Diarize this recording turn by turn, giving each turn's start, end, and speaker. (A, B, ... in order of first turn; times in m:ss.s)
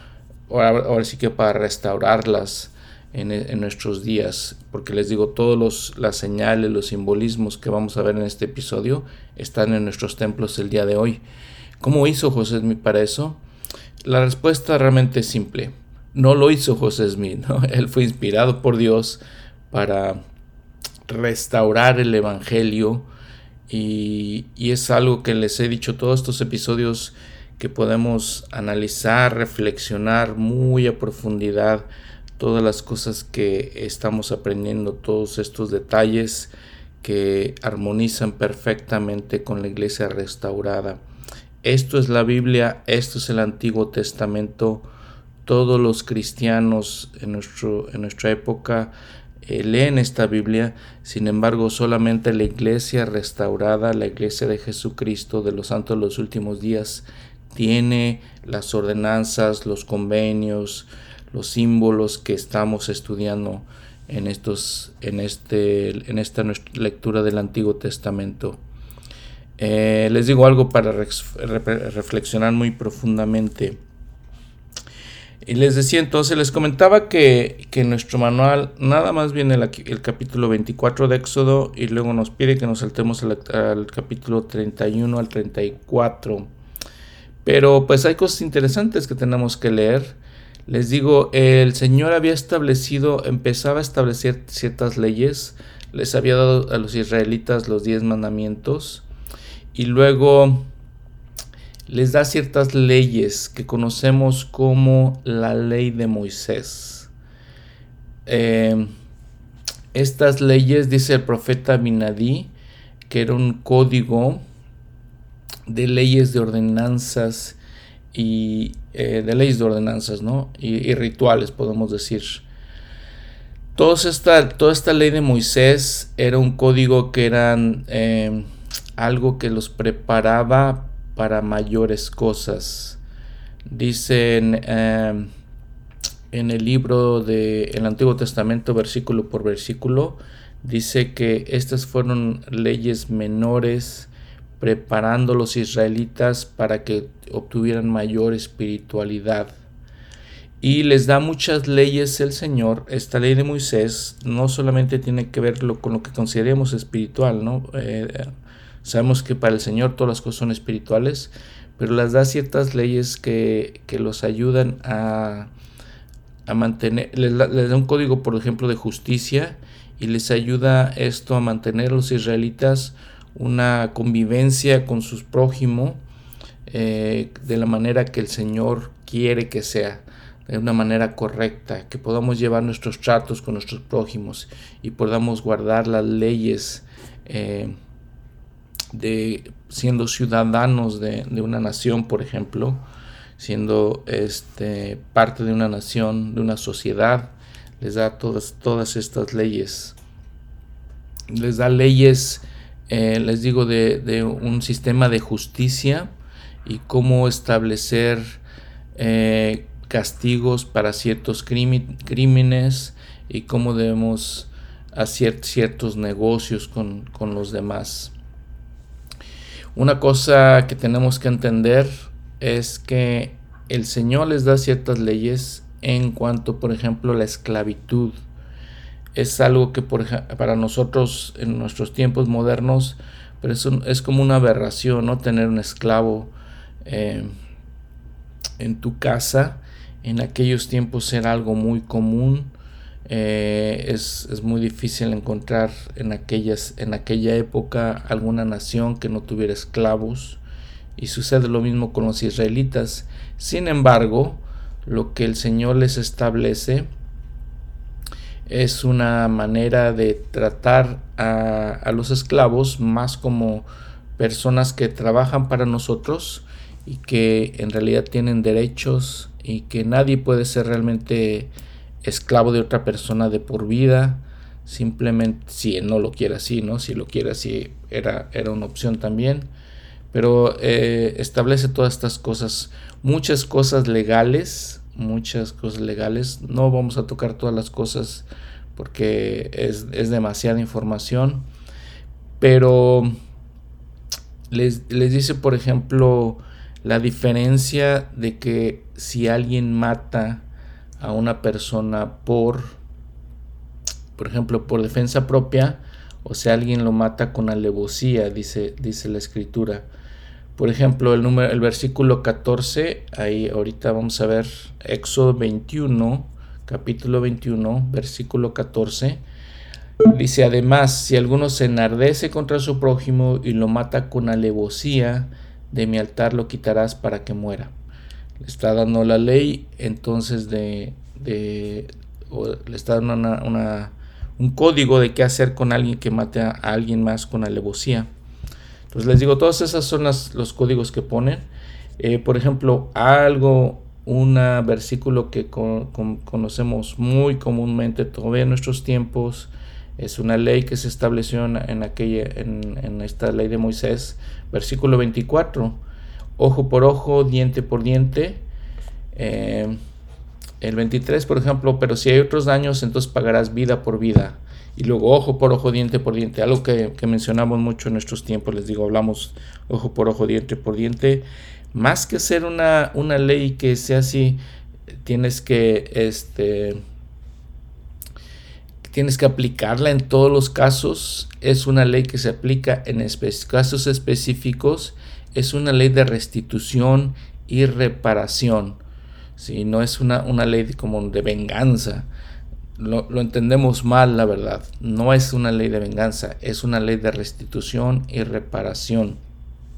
0:00.5-0:11.2 A
0:11.8-0:13.4 A
0:14.0-0:20.2 A
0:21.1-0:23.1 A
0:23.7-0:31.9 A
0:32.4-0:36.5 A
0:37.0-0:41.0 A
0:41.6-0:44.9 A
0:45.4-1:08.6 A
1:09.6-1:13.8 A
1:15.4-1:26.5 A
1:27.4-1:39.1 A
1:39.7-1:40.7 A
1:41.9-1:47.1 A
1:48.3-1:48.9 A
1:49.9-1:52.5 A
1:53.1-1:54.4 A
1:55.7-1:57.6 A
1:58.1-2:02.4 A
2:03.8-2:13.0 A
2:13.7-2:15.3 A
2:16.3-2:29.5 A
2:30.6-2:38.3 A
2:38.8-2:45.5 A
2:46.5-2:56.0 A
2:56.7-3:07.8 A
3:08.9-3:12.8 A
3:13.4-3:20.0 A
3:21.3-3:26.1 A
3:26.6-3:28.4 A
3:29.0-3:38.1 A
3:39.8-3:48.2 A
3:49.1-3:56.3 A
3:56.8-3:57.3 A
3:58.6-4:02.5 A
4:03.1-4:10.4 A
4:11.0-4:16.9 A
4:18.5-4:31.5 A
4:32.0-4:39.5 A
4:40.1-4:51.5 A
4:52.4-4:53.1 A
4:54.5-5:00.5 A
5:01.0-5:02.8 A
5:04.2-5:09.9 A
5:10.6-5:19.2 A
5:20.0-5:27.7 A
5:28.4-5:38.1 A
5:38.9-5:41.5 A
5:42.0-5:55.8 A
5:56.4-5:58.4 A
5:59.1-5:59.8 A
6:00.6-6:14.4 A
6:15.0-6:16.8 A
6:18.9-6:28.8 A
6:29.4-6:32.1 A
6:32.8-6:39.2 A